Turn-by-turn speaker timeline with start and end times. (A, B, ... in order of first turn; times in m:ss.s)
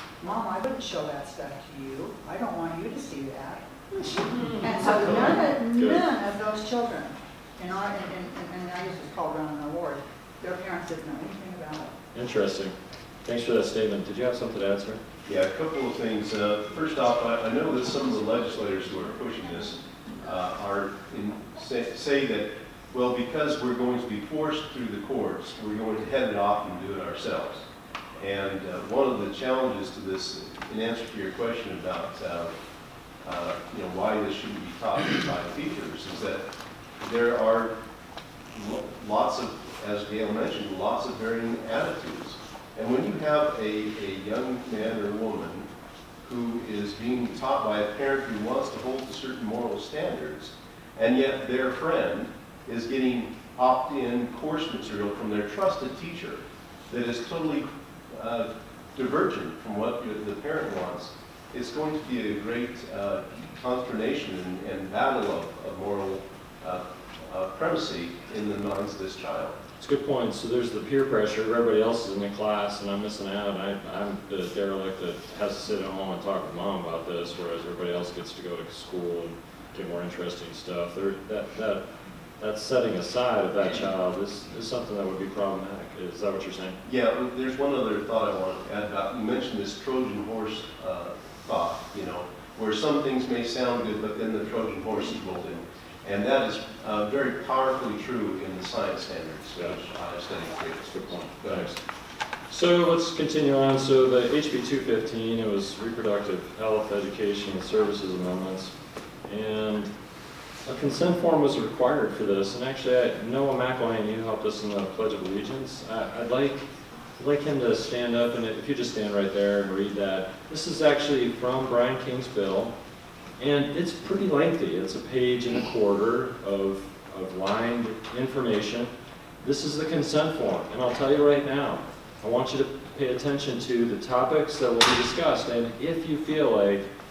0:00.2-0:11.9 A
0:05.0-0:05.3 B
0:05.2-0:06.0 C
0:12.1-0:12.7 C
0:13.2-0:15.0 C
0:15.3-0:27.7 B
0:28.2-0:32.5 B
0:33.2-0:36.4 B
0:37.0-0:37.8 B
0:38.5-0:45.7 B
0:46.2-1:09.5 B
1:09.8-1:21.8 C
1:22.4-1:26.8 C
1:26.8-1:41.7 B
1:39.5-1:39.8 C
1:40.8-1:41.8 C
1:42.5-1:48.7 C
1:49.3-1:49.9 C
1:50.6-1:56.7 C
1:57.2-2:02.7 C
2:03.4-2:08.9 C
2:09.4-2:16.8 C